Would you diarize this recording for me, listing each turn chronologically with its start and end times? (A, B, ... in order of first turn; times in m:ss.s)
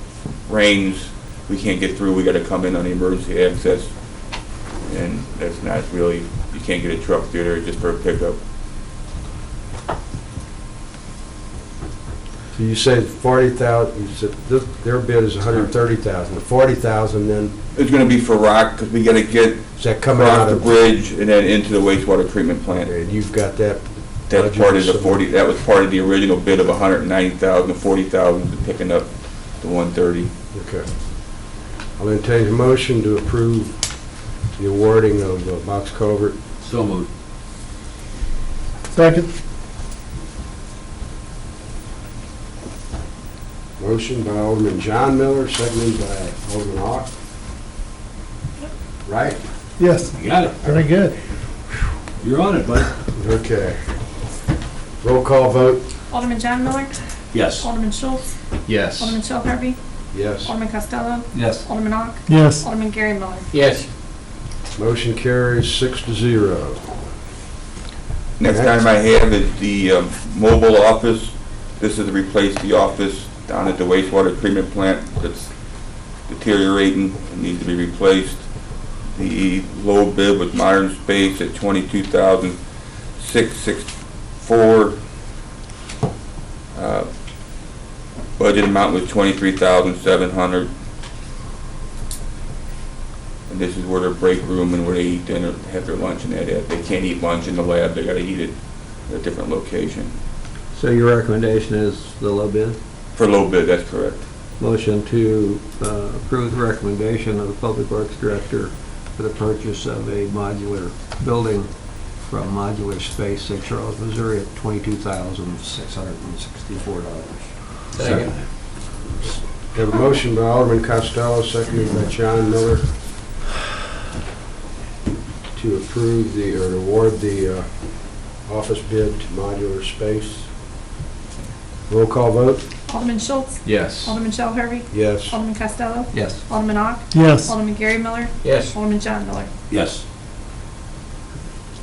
0:00.5-0:03.9 A
0:04.8-0:08.4 A
0:12.5-0:17.6 B
0:17.8-0:22.9 A
0:19.8-0:20.7 B
0:22.7-0:25.2 B
0:24.3-0:30.3 A
0:30.5-0:30.9 B
0:32.0-0:33.8 B
0:34.5-0:36.4 B
0:36.6-0:37.1 C
0:39.0-0:39.3 D
0:43.8-0:47.1 B
0:49.0-0:49.4 B
0:49.8-0:51.2 D
0:50.1-0:50.8 C
0:52.2-0:52.9 C
0:53.1-0:53.8 B
0:55.0-0:55.8 B
0:56.1-0:57.0 E
0:57.3-0:57.7 C
0:57.6-0:58.3 E
0:58.9-0:59.8 E
1:00.1-1:00.5 B
1:00.4-1:03.5 E
1:01.3-1:01.6 F
1:02.3-1:02.7 D
1:03.5-1:03.8 C
1:04.8-1:06.8 B
1:08.4-1:15.5 A
1:08.5-1:08.7 B
1:16.0-1:18.5 A
1:19.0-1:22.6 A
1:23.2-1:25.0 A
1:26.7-1:27.1 A
1:28.4-1:30.7 A
1:33.5-1:38.5 A
1:39.1-1:40.1 A
1:40.8-1:42.8 F
1:43.2-1:44.2 A
1:44.6-1:51.7 F
1:52.2-1:58.3 F
1:58.0-1:58.5 C
1:59.7-2:02.9 B
2:05.5-2:10.5 B
2:11.9-2:12.6 B
2:12.9-2:19.5 E
2:14.9-2:15.4 B
2:16.1-2:16.4 F
2:17.1-2:17.6 D
2:19.7-2:20.0 C